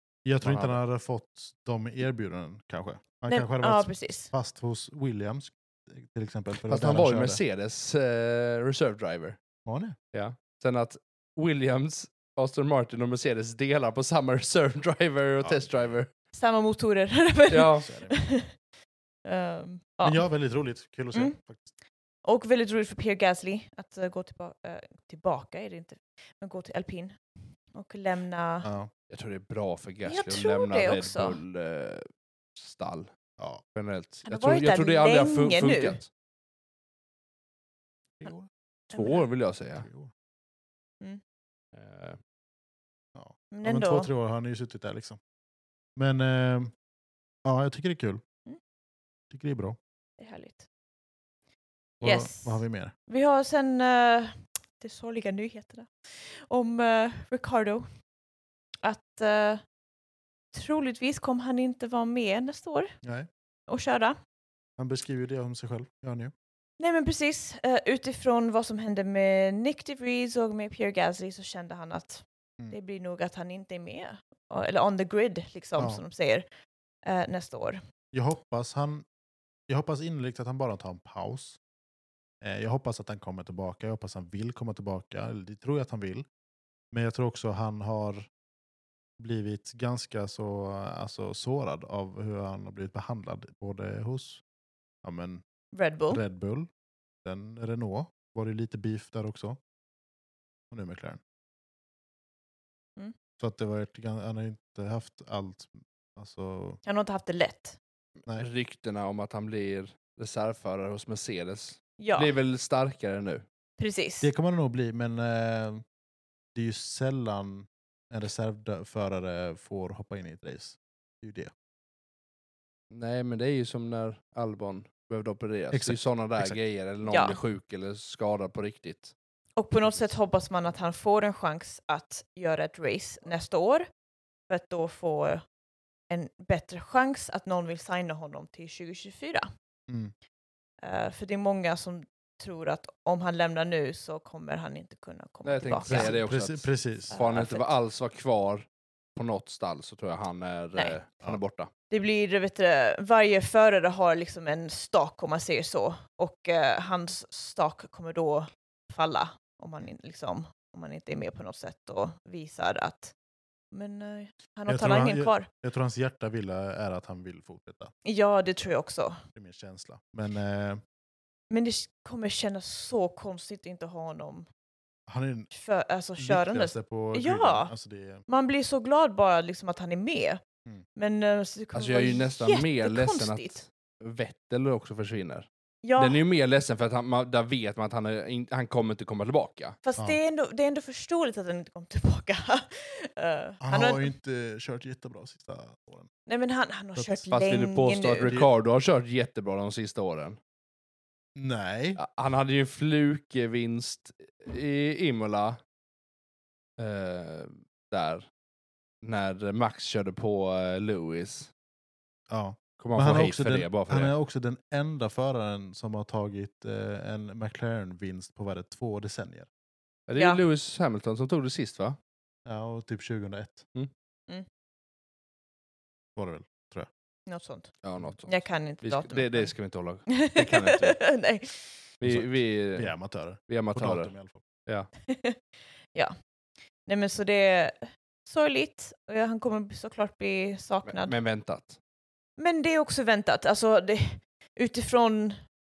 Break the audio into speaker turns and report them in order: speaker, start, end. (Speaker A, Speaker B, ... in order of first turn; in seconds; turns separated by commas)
Speaker A: 0.2-7.4, Speaker B: 0.4-0.8, Speaker C: 3.3-4.3, Speaker B: 6.6-9.4, Speaker A: 9.6-9.9, Speaker B: 10.1-16.1, Speaker A: 15.4-15.9, Speaker C: 16.3-18.6, Speaker B: 17.5-17.9, Speaker A: 17.8-18.2, Speaker C: 19.2-20.3, Speaker A: 20.0-21.7, Speaker C: 22.2-27.2, Speaker C: 27.7-28.7, Speaker A: 28.6-28.9, Speaker B: 29.1-33.1, Speaker C: 30.1-31.4, Speaker B: 33.7-36.1, Speaker C: 34.2-36.0, Speaker A: 38.2-38.5, Speaker C: 38.9-39.3, Speaker B: 38.9-39.9, Speaker A: 39.8-40.1, Speaker B: 41.7-42.2, Speaker A: 43.1-45.2, Speaker C: 43.5-44.1, Speaker A: 46.0-46.7, Speaker A: 47.4-48.2, Speaker A: 49.3-49.8, Speaker C: 50.2-50.6, Speaker A: 52.0-52.9, Speaker C: 52.0-57.9, Speaker C: 58.8-59.6, Speaker C: 60.5-62.9, Speaker A: 63.0-63.3, Speaker C: 63.7-64.2, Speaker A: 64.8-66.3, Speaker C: 66.8-76.5, Speaker C: 77.0-77.8, Speaker A: 78.1-79.0, Speaker A: 79.7-81.6, Speaker A: 82.4-86.2, Speaker A: 86.9-88.3, Speaker A: 89.2-94.4, Speaker A: 95.0-95.4, Speaker C: 95.7-96.2, Speaker A: 96.1-96.7, Speaker A: 97.2-99.6, Speaker A: 100.7-101.2, Speaker A: 103.4-106.8, Speaker C: 106.8-107.8, Speaker B: 108.2-113.4, Speaker C: 112.0-112.3, Speaker C: 113.8-114.3, Speaker A: 114.2-115.8, Speaker A: 116.5-121.5, Speaker B: 122.9-129.1, Speaker A: 125.7-126.6, Speaker C: 127.0-127.4, Speaker C: 129.6-133.9, Speaker C: 134.5-135.4, Speaker C: 136.1-139.5, Speaker A: 139.9-140.1, Speaker C: 140.8-146.2, Speaker B: 145.4-151.7, Speaker A: 145.9-147.1, Speaker C: 147.1-147.7, Speaker C: 151.9-163.1, Speaker C: 163.7-165.5, Speaker A: 164.7-167.9, Speaker C: 168.0-169.2, Speaker A: 169.3-170.8, Speaker C: 171.5-174.4, Speaker A: 175.1-175.5, Speaker C: 175.5-177.7, Speaker A: 176.2-178.2, Speaker C: 178.3-180.4, Speaker C: 180.9-183.6, Speaker B: 181.7-185.5, Speaker C: 185.8-186.2, Speaker B: 186.0-189.8, Speaker C: 189.8-194.1, Speaker A: 193.6-196.1, Speaker C: 196.3-198.3, Speaker A: 196.9-197.2, Speaker B: 197.3-200.4, Speaker A: 198.2-198.5, Speaker A: 201.3-202.0, Speaker B: 202.0-205.6, Speaker B: 206.8-208.2, Speaker B: 209.0-211.5, Speaker A: 212.3-219.5, Speaker B: 212.8-214.1, Speaker B: 220.1-222.0, Speaker C: 220.1-220.4, Speaker A: 222.4-223.7, Speaker A: 226.2-226.9, Speaker C: 227.3-229.5, Speaker B: 227.8-231.0, Speaker C: 230.1-231.9, Speaker B: 232.0-232.9, Speaker A: 232.0-234.4, Speaker B: 233.5-234.1, Speaker C: 235.1-235.4, Speaker C: 236.8-241.1, Speaker B: 240.8-241.8, Speaker C: 242.4-245.4